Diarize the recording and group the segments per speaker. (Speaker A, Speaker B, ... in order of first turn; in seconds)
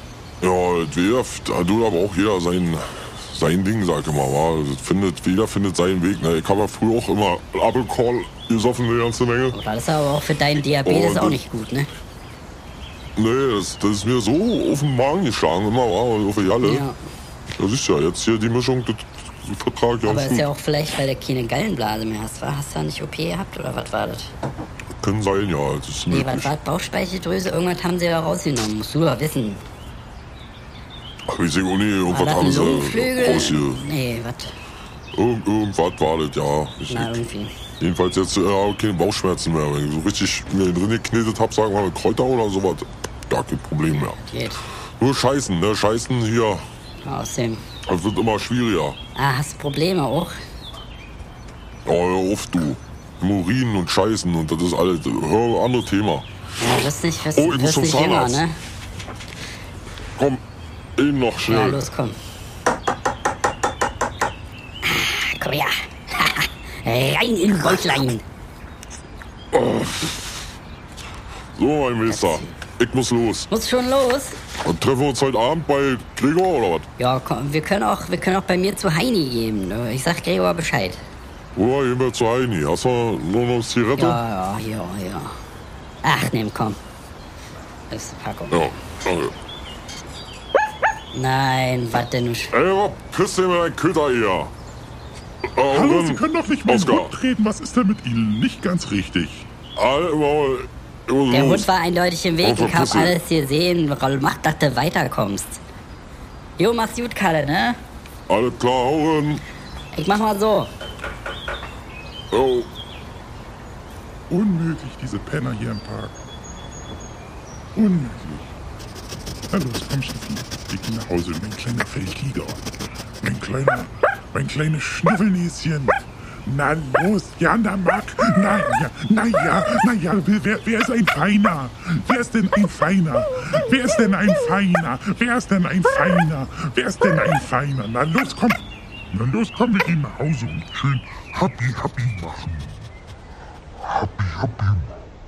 Speaker A: 0.4-9.6, 10.8-11.4, 13.2-16.9, 17.6-20.5, 24.9-26.5, 31.3-33.8, 35.1-37.2, 37.8-44.2, 45.0-46.7, 47.9-49.0, 51.9-56.3, 57.4-58.4, 61.0-61.9, 69.5-70.4, 71.5-73.5, 74.6-76.9, 81.5-84.2, 88.5-89.3, 92.5-94.5, 95.5-97.2, 99.8-101.7, 102.4-103.2, 108.3-109.4, 112.3-112.7
Speaker B: 9.5-11.9, 16.6-17.0, 20.0-24.3, 26.1-29.6, 32.1-34.5, 36.9-37.5, 44.2-44.6, 47.0-47.6, 49.1-50.4, 56.6-58.5, 61.5-62.2, 64.8-68.2, 72.1-72.5, 73.5-74.4, 77.0-81.0, 84.0-85.4, 86.0-86.8, 87.9-88.7, 91.1-92.5, 101.3-105.6, 106.6-107.8, 109.9-110.7
Speaker C: 95.7-99.5, 114.3-116.2, 117.8-118.5, 119.5-122.6, 123.2-142.7, 143.9-144.9